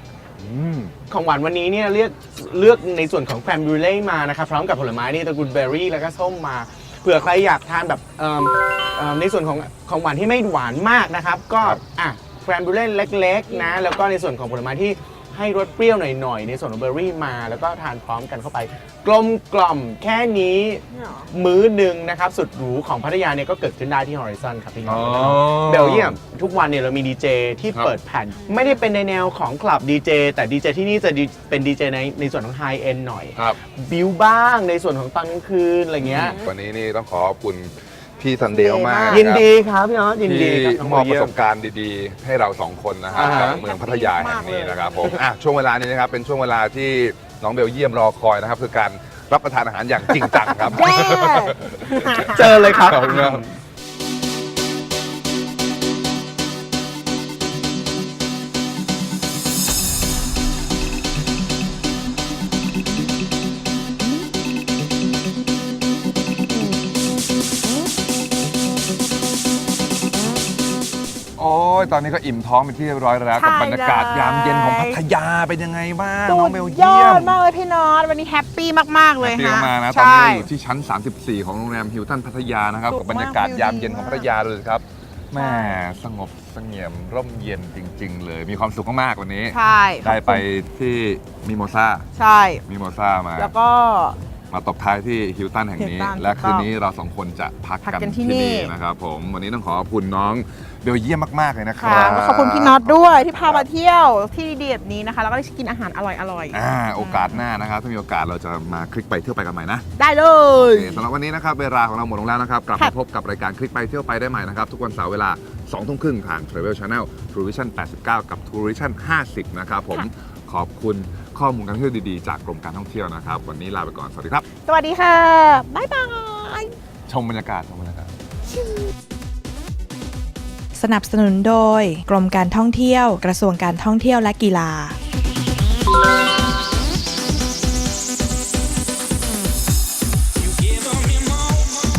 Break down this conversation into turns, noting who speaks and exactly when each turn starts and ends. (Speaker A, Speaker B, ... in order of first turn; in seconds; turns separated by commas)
Speaker A: 0.4-0.9, Speaker B: 1.1-36.4, Speaker C: 20.9-21.3, Speaker A: 24.8-26.2, Speaker C: 28.4-28.8, Speaker A: 36.0-39.5, Speaker C: 38.5-39.2, Speaker B: 39.1-41.3, Speaker A: 40.2-53.4, Speaker C: 43.1-45.2, Speaker B: 43.2-43.6, Speaker C: 50.6-52.6, Speaker B: 52.3-53.5, Speaker A: 71.4-77.4, Speaker C: 73.3-75.0, Speaker C: 76.2-80.5, Speaker A: 79.2-92.1, Speaker C: 82.9-84.3, Speaker C: 85.4-85.8, Speaker C: 89.5-90.4, Speaker C: 92.2-92.6, Speaker A: 92.7-93.5, Speaker C: 93.4-94.2, Speaker A: 94.5-103.7, Speaker C: 95.8-96.7, Speaker C: 97.8-98.7, Speaker C: 101.8-107.4, Speaker A: 106.5-109.8, Speaker C: 110.0-111.0, Speaker A: 110.6-124.4, Speaker C: 124.7-126.7, Speaker A: 127.1-128.1, Speaker D: 130.7-134.9, Speaker C: 140.7-141.6